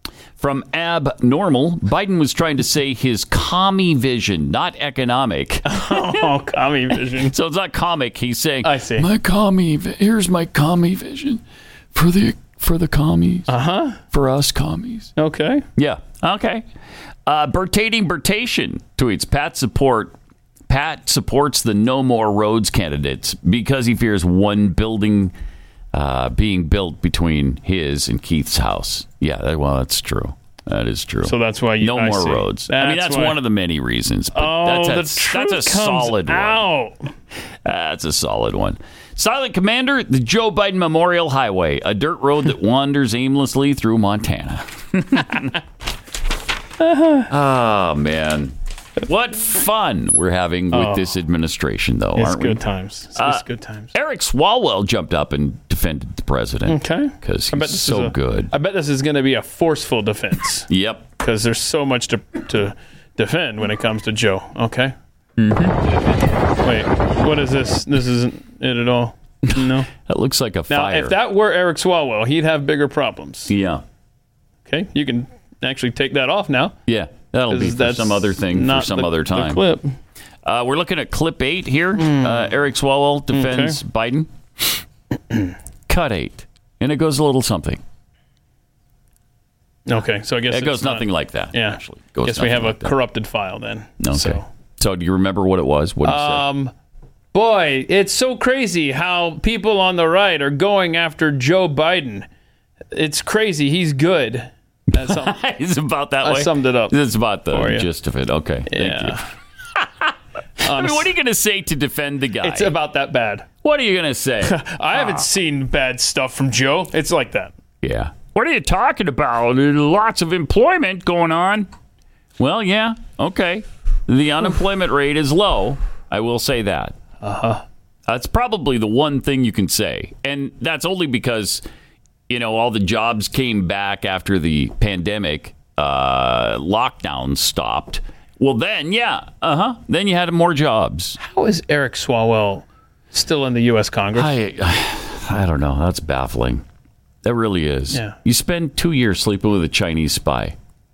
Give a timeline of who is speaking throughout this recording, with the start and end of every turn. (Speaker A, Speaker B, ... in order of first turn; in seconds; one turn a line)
Speaker A: 0.4-6.3
Speaker B: 5.7-7.3
Speaker A: 7.3-11.4
Speaker B: 8.6-9.1
Speaker A: 11.9-13.5
Speaker B: 13.5-14.0
Speaker A: 14.1-15.1
Speaker B: 15.2-15.6
Speaker A: 15.8-16.6
Speaker A: 17.2-20.1
Speaker A: 20.7-25.3
Speaker A: 25.9-36.6
Speaker B: 31.2-33.4
Speaker B: 34.3-37.0
Speaker A: 37.6-45.5
Speaker B: 46.8-47.3
Speaker A: 47.3-52.6
Speaker B: 50.7-51.1
Speaker B: 52.2-53.9
Speaker A: 53.1-58.5
Speaker B: 56.7-60.7
Speaker A: 60.7-61.0
Speaker B: 61.2-64.9
Speaker A: 65.4-65.8
Speaker B: 66.6-69.9
Speaker A: 69.5-71.2
Speaker B: 70.7-73.5
Speaker A: 73.5-73.8
Speaker B: 74.7-76.7
Speaker A: 76.9-79.6
Speaker B: 77.5-79.9
Speaker A: 80.4-84.8
Speaker B: 82.0-82.5
Speaker B: 83.3-83.8
Speaker A: 85.9-87.8
Speaker B: 89.9-94.4
Speaker A: 90.5-92.9
Speaker A: 94.0-96.5
Speaker B: 96.0-96.7
Speaker B: 97.3-102.2
Speaker B: 102.9-105.3
Speaker A: 104.9-109.2
Speaker B: 106.2-107.0
Speaker B: 107.5-107.9
Speaker B: 108.7-109.2
Speaker A: 109.8-112.7
Speaker B: 110.6-111.1
Speaker B: 112.4-113.5
Speaker A: 113.6-115.2
Speaker B: 114.5-117.5
Speaker A: 117.8-121.7
Speaker A: 122.4-127.0
Speaker B: 127.2-127.6
Speaker A: 128.1-131.6
Speaker A: 132.3-141.2
Speaker B: 141.2-144.3
Speaker A: 144.1-146.6
Speaker A: 147.2-150.6